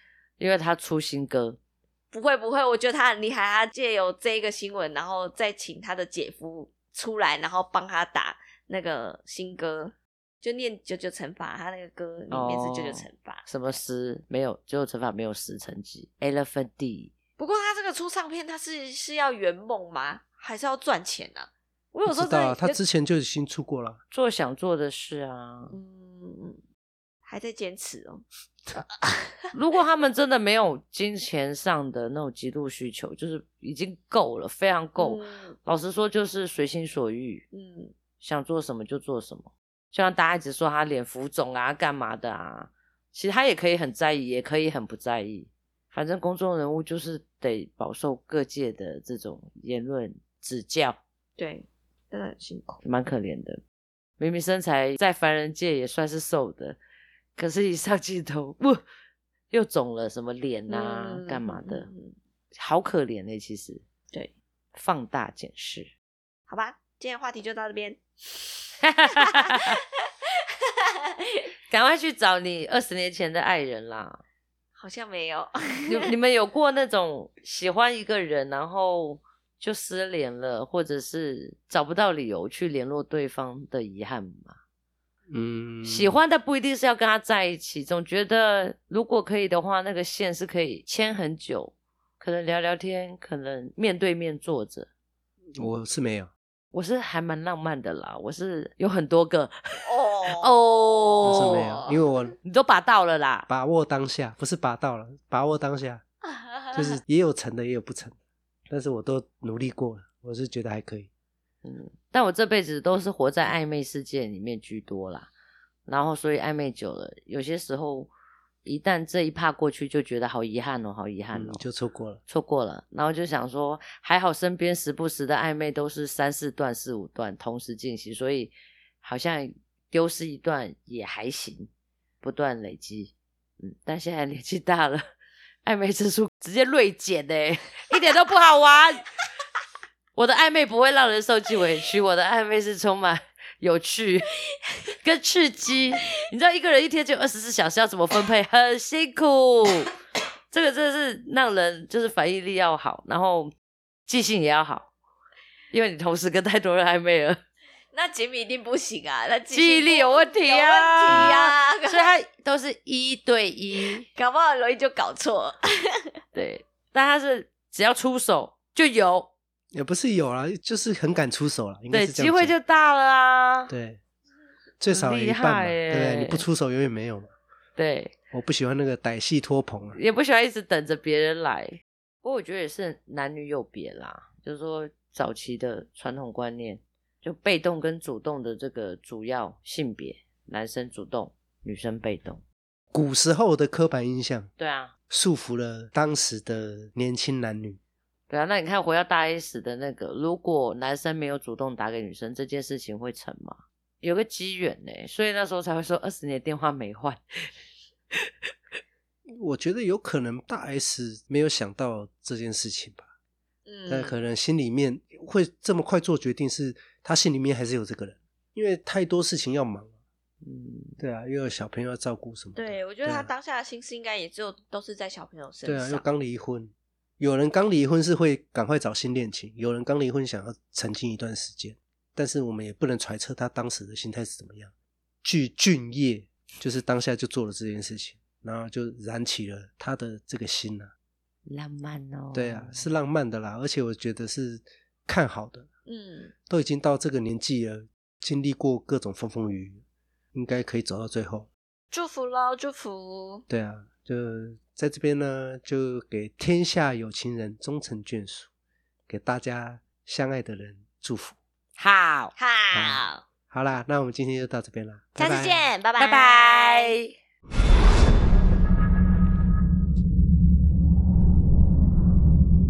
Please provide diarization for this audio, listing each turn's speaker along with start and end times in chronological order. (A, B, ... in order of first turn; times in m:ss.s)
0:00.4-0:01.6 A
0:02.1-0:13.8 B
0:12.3-0:17.1 A
0:17.4-0:22.8 B
0:22.1-0:24.0 C
0:24.1-0:25.8 A
0:25.7-0:26.6 B
0:27.3-0:28.2 B
0:29.5-0:37.4 A
0:35.0-0:35.6 B
0:37.5-0:37.9 B
0:38.2-0:51.0 A
0:51.4-0:52.8 B
0:52.8-0:53.6 A
0:54.2-0:56.8 A
0:57.4-0:58.8 A
0:59.5-1:01.9 A
1:00.7-1:02.2 B
1:02.5-1:03.8 A
1:04.8-1:05.9 A
1:06.5-1:09.6 B
1:08.8-1:09.8 A
1:10.4-1:11.5 B
1:11.7-1:14.2 A
1:14.8-1:16.1 B
1:15.8-1:24.6 A
1:25.3-1:26.2 C
1:25.8-1:34.9 A
1:35.6-1:36.3 C
1:36.7-1:41.8 A
1:39.8-1:42.0 B
1:41.2-1:42.4 C
1:42.4-1:43.5 A
1:43.5-1:46.0 C
1:46.4-1:47.0 B
1:46.7-1:48.2 C
1:48.7-1:51.1 C
1:51.6-1:55.3 A
1:55.9-1:58.1 A
1:58.6-2:01.6 A
2:01.3-2:02.2 C
2:02.3-2:11.7 A
2:12.2-2:15.1 A
2:15.6-2:19.0 A
2:20.2-2:24.4 A
2:25.0-2:29.9 A
2:30.5-2:33.5 A
2:34.1-2:34.9 A
2:35.7-2:37.4 A
2:37.9-2:42.1 B
2:39.5-2:44.1 A
2:44.0-2:46.1 B
2:46.4-2:49.3 A
2:49.7-2:52.5 C
2:51.9-2:53.7 A
2:53.7-2:54.0 C
2:54.8-2:57.3 C
2:54.9-2:56.4 A
2:57.8-2:58.1 A
2:58.3-3:00.0 C
3:00.0-3:12.4 A
3:12.9-3:14.5 C
3:14.6-3:14.9 A
3:15.1-3:17.8 C
3:18.3-3:27.5 A
3:29.3-3:33.1 C
3:33.7-3:34.2 B
3:33.9-3:39.9 C
3:40.4-3:41.0 A
3:41.0-3:43.3 C
3:42.6-3:46.0 B
3:45.6-3:54.7 C
3:55.2-4:00.9 C
4:01.5-4:02.9 A
4:02.3-4:05.7 C
4:05.9-4:06.3 B
4:06.5-4:09.8 C
4:10.3-4:11.5 C
4:11.9-4:13.4 B
4:13.5-4:18.5 C
4:19.1-4:21.4 C
4:21.8-4:22.3 A
4:22.4-4:23.2 B
4:22.7-4:25.7 C
4:25.2-4:27.0 B
4:26.0-4:27.1 A